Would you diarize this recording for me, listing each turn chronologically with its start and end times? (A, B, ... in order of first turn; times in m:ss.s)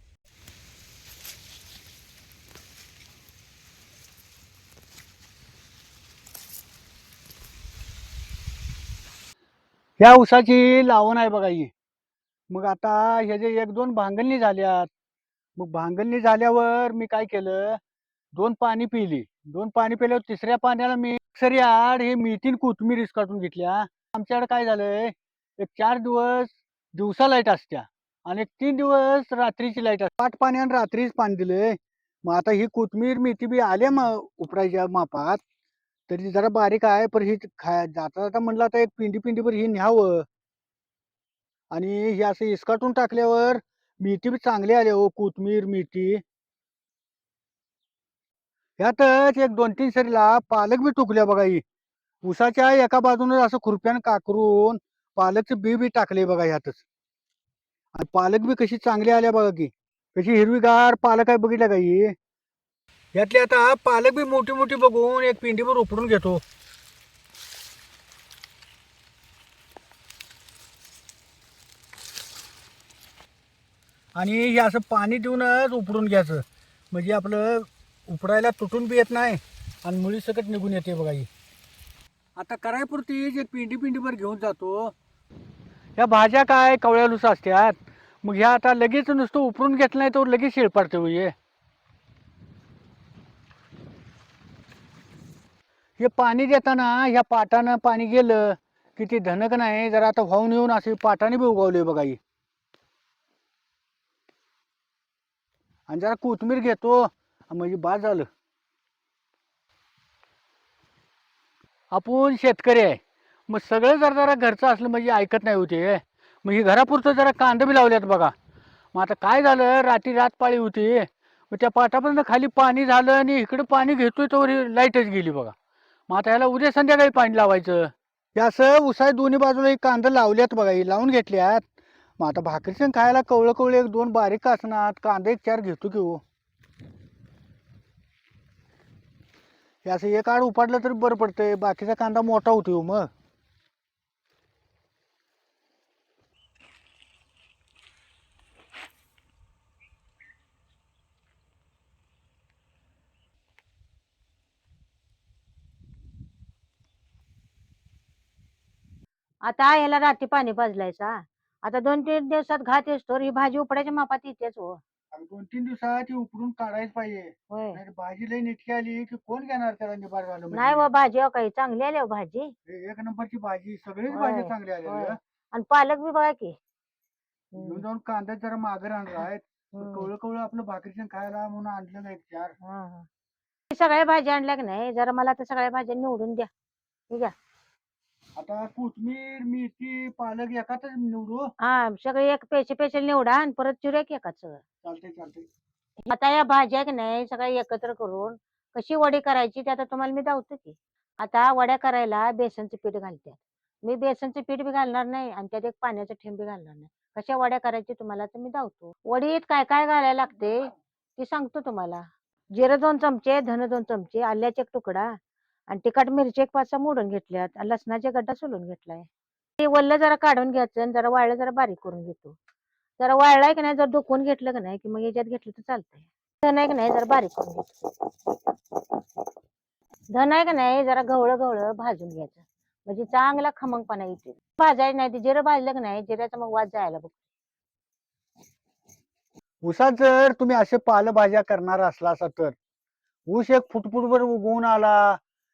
0:10.0-0:11.7 A
0:12.5-0:14.9 A
0:15.6-0:17.8 A
0:18.3-0:35.4 A
0:36.1-0:40.2 A
0:41.7-0:46.2 A
0:48.8-0:51.6 A
0:52.2-0:56.8 A
0:57.9-1:02.1 A
1:03.1-1:06.4 A
1:14.1-1:21.3 A
1:22.4-1:24.9 A
1:26.0-1:31.3 A
1:36.0-1:42.2 A
1:45.9-1:48.3 A
1:51.9-1:58.3 A
1:58.9-2:05.5 A
2:06.1-2:11.7 A
2:12.2-2:16.2 A
2:19.8-2:23.1 A
2:39.5-2:44.8 B
2:45.1-2:50.9 A
2:47.5-2:47.8 B
2:50.5-2:52.5 B
2:52.7-2:55.2 A
2:54.1-2:56.6 B
2:57.5-2:57.8 B
2:57.6-3:02.6 A
2:59.8-3:00.1 B
3:02.6-3:03.1 B
3:03.7-3:06.5 B
3:08.4-3:11.5 A
3:11.6-3:14.6 B
3:14.8-3:15.5 A
3:16.1-3:30.6 B
3:31.2-3:35.1 B
3:35.7-3:39.1 B
3:39.6-3:42.4 B
3:43.0-3:47.7 B
3:50.1-3:57.2 B
3:59.6-4:02.5 A
4:03.3-4:05.2 A